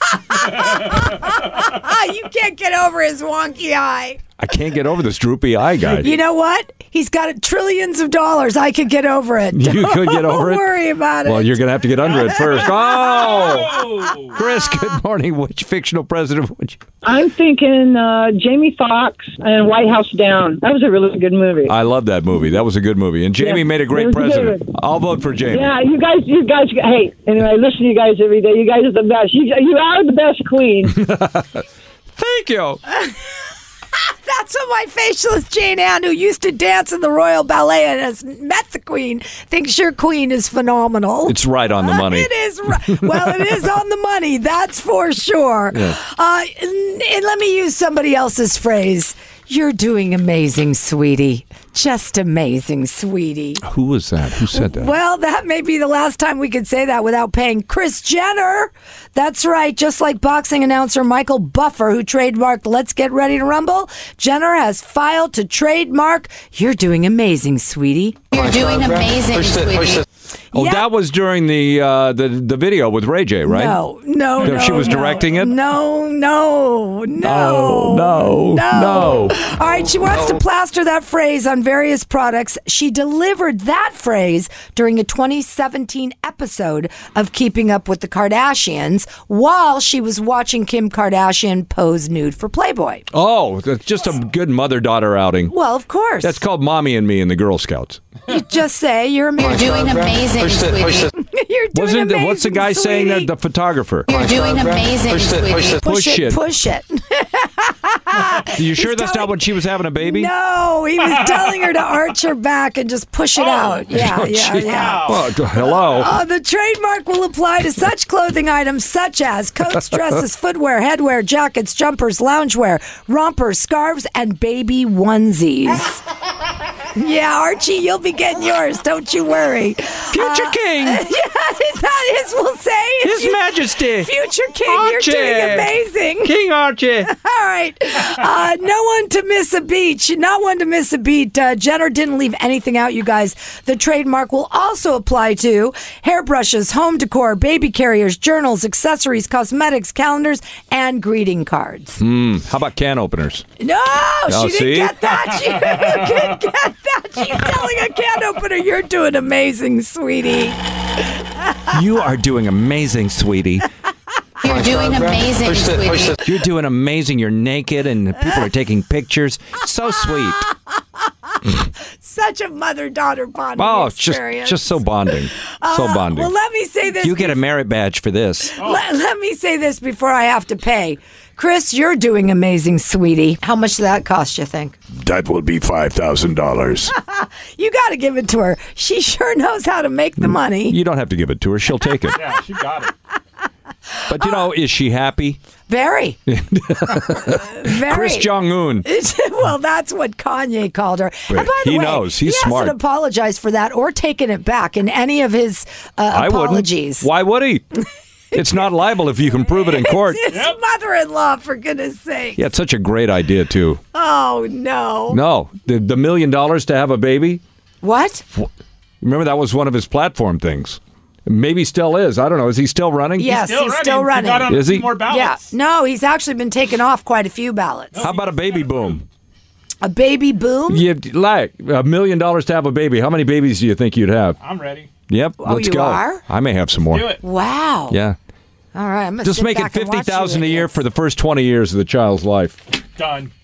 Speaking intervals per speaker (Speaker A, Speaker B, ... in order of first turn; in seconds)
Speaker A: 0.1-4.2, 5.8-13.8, 34.0-53.6, 54.5-68.2, 70.5-70.9, 73.4-93.1, 95.5-96.4, 98.3-100.2, 101.1-103.3, 105.8-126.0, 126.9-136.3, 137.0-152.0, 153.6-160.8, 172.0-177.4, 178.5-184.8, 186.9-190.8, 194.1-194.5, 195.7-196.2, 196.8-207.1, 208.3-208.8, 209.3-212.4, 213.9-215.2, 217.8-218.2, 223.2-228.1, 229.8-230.8, 235.4-236.2, 237.2-238.0, 238.7-240.8
Speaker B: 0.5-1.2, 13.1-14.3, 113.3-114.0, 114.6-115.2, 192.1-192.9, 210.3-210.6, 223.3-225.5, 227.9-229.0, 234.4-234.9, 236.9-237.2, 243.0-243.3
Speaker C: 4.4-6.2, 9.5-10.7, 11.2-16.8, 21.7-25.7, 30.9-31.6, 32.2-32.8, 41.3-42.3, 42.8-43.5, 45.7-46.0, 53.6-54.9, 70.5-73.8, 74.4-75.5, 77.2-79.4, 93.1-95.5, 96.2-98.0, 101.7-104.2, 105.8-106.4, 108.5-110.3, 114.0-116.1, 130.1-131.0, 133.0-135.7, 136.2-137.1, 152.0-153.5, 154.3-155.2, 161.7-163.7, 166.2-170.5, 173.6-176.3, 176.9-178.6, 184.9-186.9, 190.2-192.2, 194.1-195.4, 196.3-198.9, 201.3-202.8, 206.1-207.6, 208.3-210.2, 212.3-213.8, 215.1-217.4, 219.0-223.3, 224.5-225.0, 228.0-229.1, 230.7-234.4, 235.1-237.2, 237.9-238.2, 239.2-242.6
Speaker D: 17.0-21.8, 23.4-24.7, 25.4-31.0
Speaker E: 68.3-70.0, 99.7-101.1, 104.1-105.8, 164.4-166.2